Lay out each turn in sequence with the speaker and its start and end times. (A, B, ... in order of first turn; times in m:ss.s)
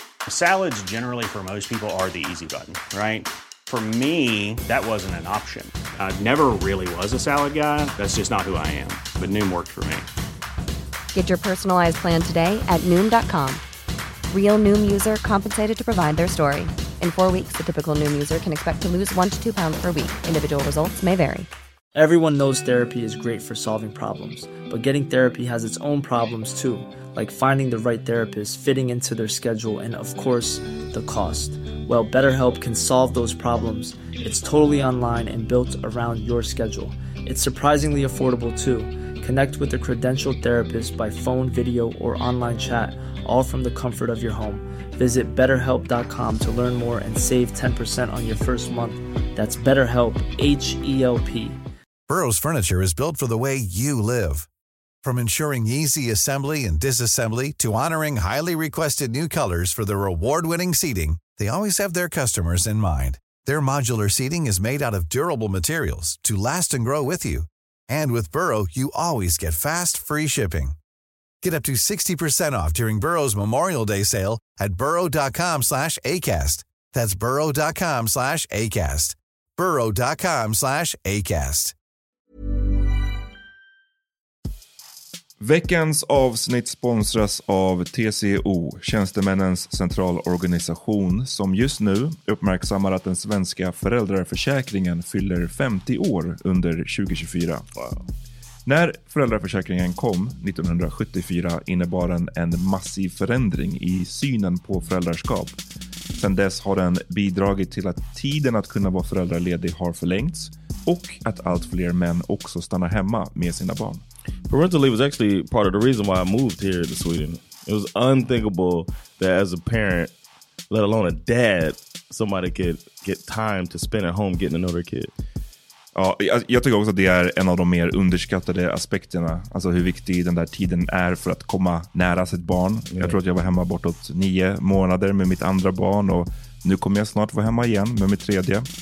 0:02.5-0:03.1 A
0:03.7-0:10.0 A
0:11.1-0:13.6 B
0:14.3-0:21.5 B
0:21.9-0:51.6 C
0:52.1-0:54.5 D
0:55.0-1:10.8 D
1:11.4-1:21.7 D
1:25.4-1:37.6 E
1:37.8-1:38.0 F
1:38.6-1:45.6 E
1:46.2-1:54.0 E
1:54.5-2:00.1 F
2:00.7-2:05.1 F
2:06.0-2:18.7 E
2:12.9-2:13.2 F